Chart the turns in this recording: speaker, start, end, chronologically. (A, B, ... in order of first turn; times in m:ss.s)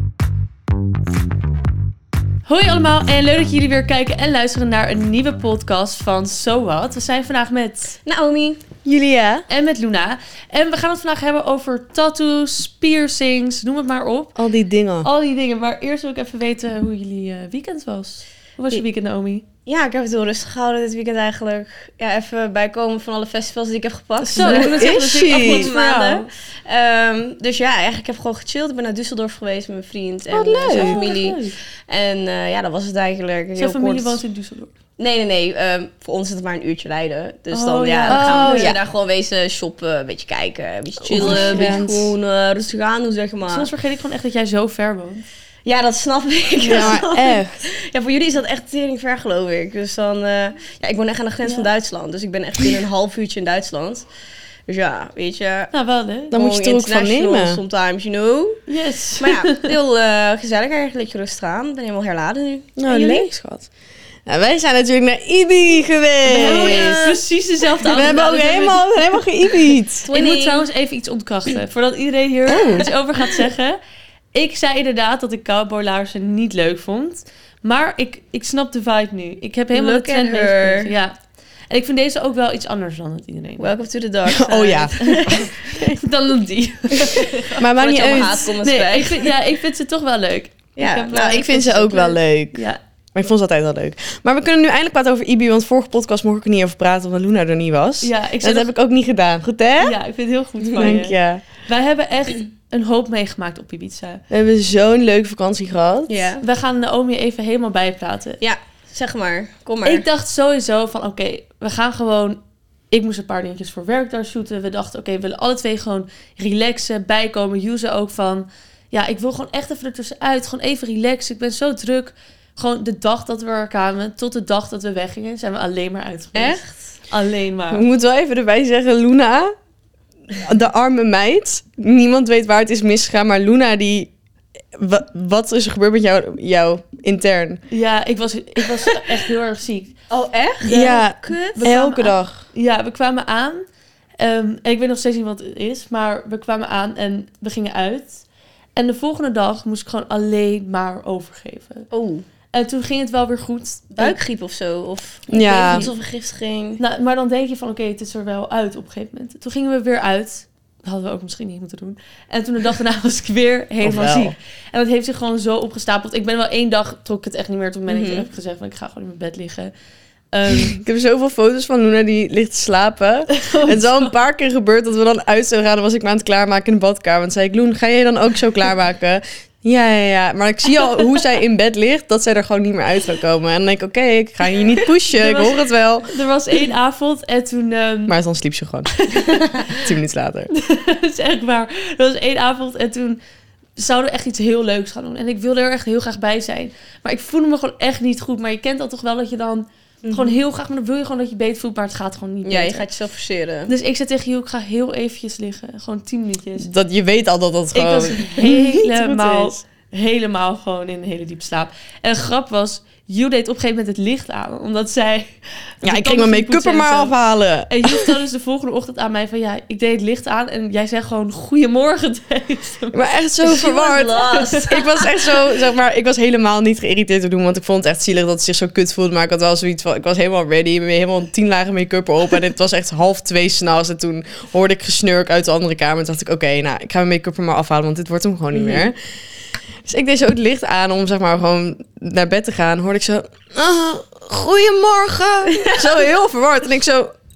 0:02.5-0:08.0 A
0:08.1-0:08.6 B
0:08.8-0:09.5 C
0:09.5-0:14.4 A
0:14.4-0:15.1 C
0:15.0-0:19.4 A
0:19.7-0:34.2 B
0:24.2-0:25.7 C
0:24.3-0:26.3 A
0:30.3-0:31.1 C
0:30.7-0:31.6 A
0:33.6-0:34.7 A
0:35.0-0:43.7 B
0:37.5-0:38.7 A
0:38.1-0:38.8 C
0:41.0-0:42.1 C
0:41.2-0:41.8 A
0:43.5-0:45.2 A
0:45.6-0:54.1 B
0:46.6-0:47.0 A
0:46.7-0:47.5 C
0:54.7-0:55.7 B
0:55.7-0:56.4 A
0:56.3-0:57.6 C
0:56.3-0:58.6 B
0:58.7-0:59.7 A
0:59.2-1:03.3 B
1:02.8-1:03.7 C
1:04.3-1:07.0 C
1:06.3-1:09.6 A
1:06.4-1:07.2 B
1:07.9-1:10.1 C
1:10.0-1:10.7 B
1:10.1-1:13.8 A
1:12.5-1:12.8 C
1:14.3-1:21.2 A
1:19.7-1:20.9 B
1:21.7-1:23.7 A
1:23.6-1:25.5 B
1:24.3-1:26.0 C
1:25.0-1:32.8 A
1:27.0-1:29.3 B
1:27.6-1:28.5 C
1:30.8-1:31.6 B
1:31.3-1:32.6 C
1:33.1-1:40.0 C
1:38.0-1:38.7 A
1:39.8-1:44.2 A
1:40.7-1:41.0 B
1:40.8-1:41.4 C
1:44.3-1:46.2 C
1:46.1-1:46.4 B
1:46.4-1:48.4 A
1:48.4-1:50.1 B
1:49.8-1:52.4 A
1:52.9-2:07.9 A
2:06.4-2:06.8 B
2:07.7-2:09.5 C
2:10.3-2:14.1 C
2:14.8-2:17.6 C
2:17.7-2:19.9 A
2:20.1-2:21.7 B
2:20.6-2:22.4 C
2:21.6-2:23.6 A
2:24.2-2:28.2 A
2:28.8-2:31.9 A
2:31.9-2:32.2 B
2:32.5-2:34.2 A
2:34.0-2:36.8 B
2:35.3-2:35.9 C
2:36.8-2:49.7 A
2:43.8-2:44.4 C
2:47.9-2:48.3 B
2:50.3-2:50.8 A
2:50.5-3:06.1 C
2:53.3-2:54.0 A
3:05.1-3:08.2 A
3:08.1-3:09.0 C
3:09.0-3:09.8 A
3:09.7-3:10.5 C
3:10.5-3:13.2 A
3:13.8-3:22.9 A
3:20.0-3:20.4 B
3:22.4-3:23.7 B
3:23.7-3:26.7 A
3:26.6-3:29.6 C
3:27.7-3:37.1 A
3:35.8-3:38.2 C
3:37.7-3:43.1 A
3:42.9-3:59.0 C
3:43.4-3:45.6 B
3:44.4-3:44.6 A
3:58.5-3:58.9 B
3:59.9-4:07.1 C
4:05.5-4:06.0 B